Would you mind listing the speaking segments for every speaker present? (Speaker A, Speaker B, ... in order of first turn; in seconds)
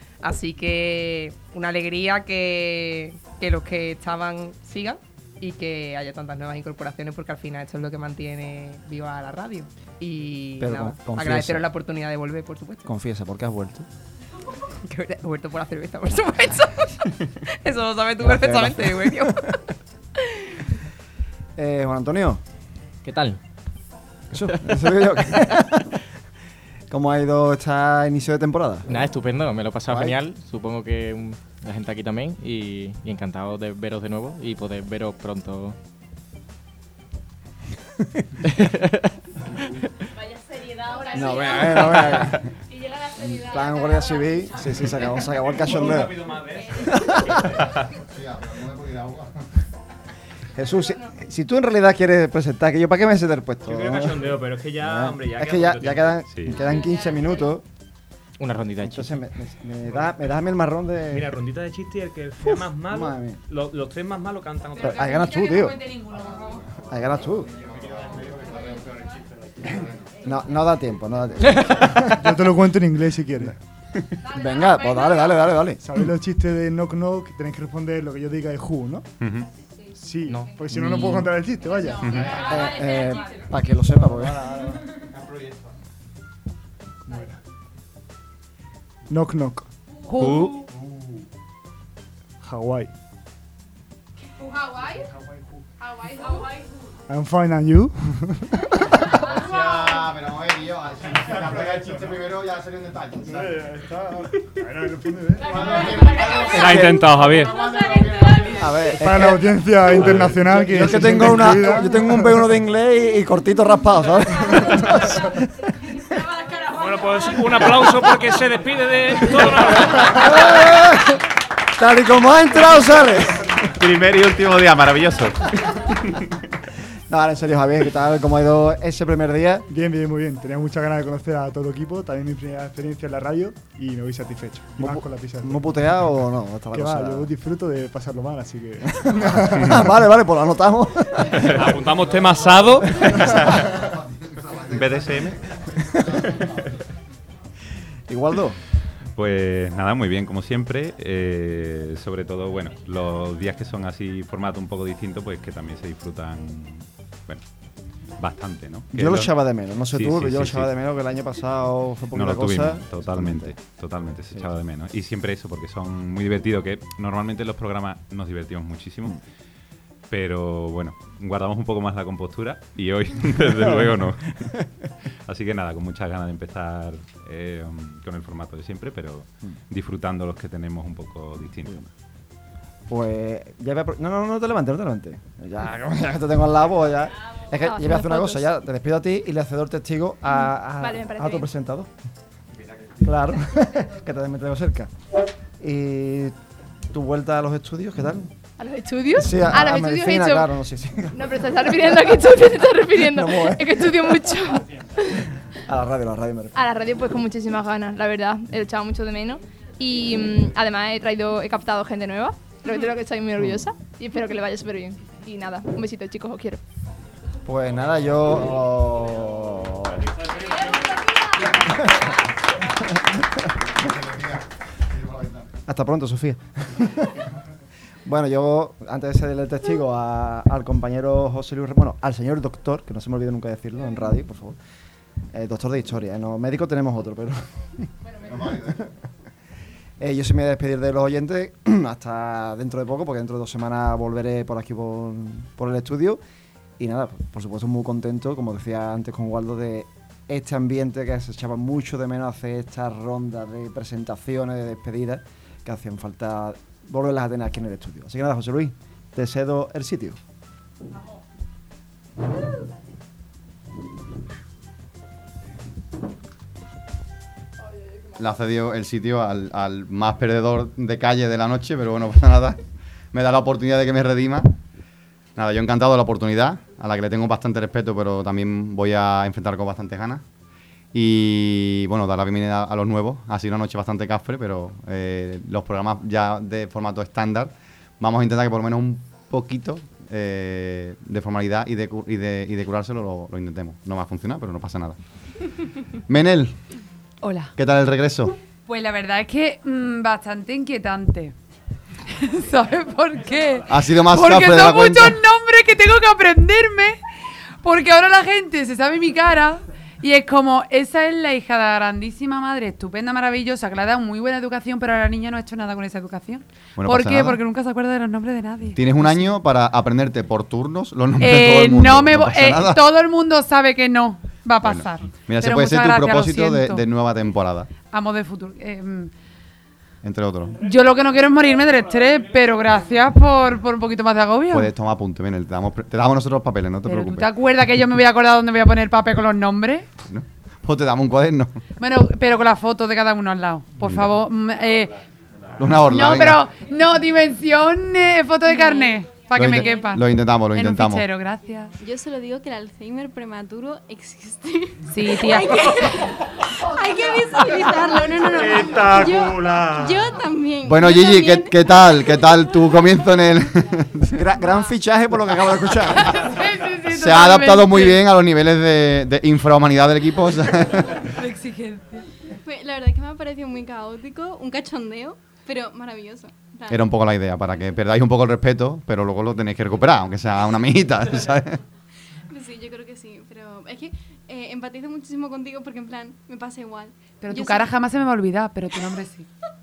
Speaker A: 0.2-12.9, 14.8-19.6
Speaker B: 10.6-11.7, 12.8-13.9, 18.2-19.4, 21.6-22.4, 24.3-25.9, 26.9-29.0, 29.9-30.2, 41.1-42.4, 43.2-46.2, 46.9-47.4, 50.5-57.6, 58.8-61.4, 62.5-63.4, 64.8-65.9, 66.9-67.5, 70.2-72.3, 74.2-75.8, 82.2-84.6, 106.6-107.0, 108.5-115.3, 119.9-121.2, 121.8-123.5, 127.1-129.7, 134.8-137.3, 139.2-141.4, 148.1-148.6, 158.9-163.6, 182.9-191.9, 193.0-194.9, 195.6-196.3, 196.9-198.3, 199.1-201.3, 202.9-203.9, 205.7-206.6, 213.4-213.7, 217.4-220.1, 225.7-227.1, 228.0-234.6, 235.3-237.5, 240.0-246.2, 246.8-260.2, 364.1-366.2
Speaker C: 23.0-23.4, 24.5-25.0, 28.9-35.8, 58.4-59.2, 80.2-81.2, 90.2-90.5
Speaker D: 40.9-42.2, 43.4-44.2, 82.6-83.1, 107.5-108.2, 187.6-188.4, 190.4-191.5
Speaker E: 48.1-49.5, 99.2-103.5, 105.4-108.7, 225.0-225.4, 268.2-274.5, 275.4-280.2, 280.9-295.5, 296.1-296.7, 297.6-298.4, 303.7-305.2, 316.8-317.4, 318.7-322.9, 324.6-327.7, 330.0-330.7, 334.5-337.3, 340.0-341.6, 343.8-344.2, 345.6-346.4, 349.3-351.1, 360.6-364.2, 366.9-370.9, 376.7-381.6
Speaker F: 53.6-56.2, 61.1-65.1, 106.5-107.5, 141.5-143.3
Speaker G: 56.3-56.7, 79.2-79.5, 123.8-125.4, 144.7-145.4, 149.1-160.7, 162.1-169.2, 170.1-174.6, 175.2-181.9
Speaker H: 72.0-73.5, 75.8-79.0, 79.9-82.2, 89.1-89.7, 92.4-92.9, 97.1-99.0, 103.3-105.6, 108.9-112.4, 129.7-135.6, 136.7-139.8
Speaker I: 116.7-120.2
Speaker J: 198.6-200.5, 201.1-205.0, 206.5-216.6
Speaker K: 297.2-297.5, 298.6-301.3, 302.1-307.0, 307.6-319.4, 321.2-326.9, 327.8-329.1, 330.6-334.7, 336.8-339.9, 341.8-345.0, 345.7-351.7, 354.9-355.5, 366.4-367.9, 387.2-389.3
Speaker L: 348.5-348.9, 349.5-350.0, 351.8-362.5, 371.2-376.8, 382.3-387.7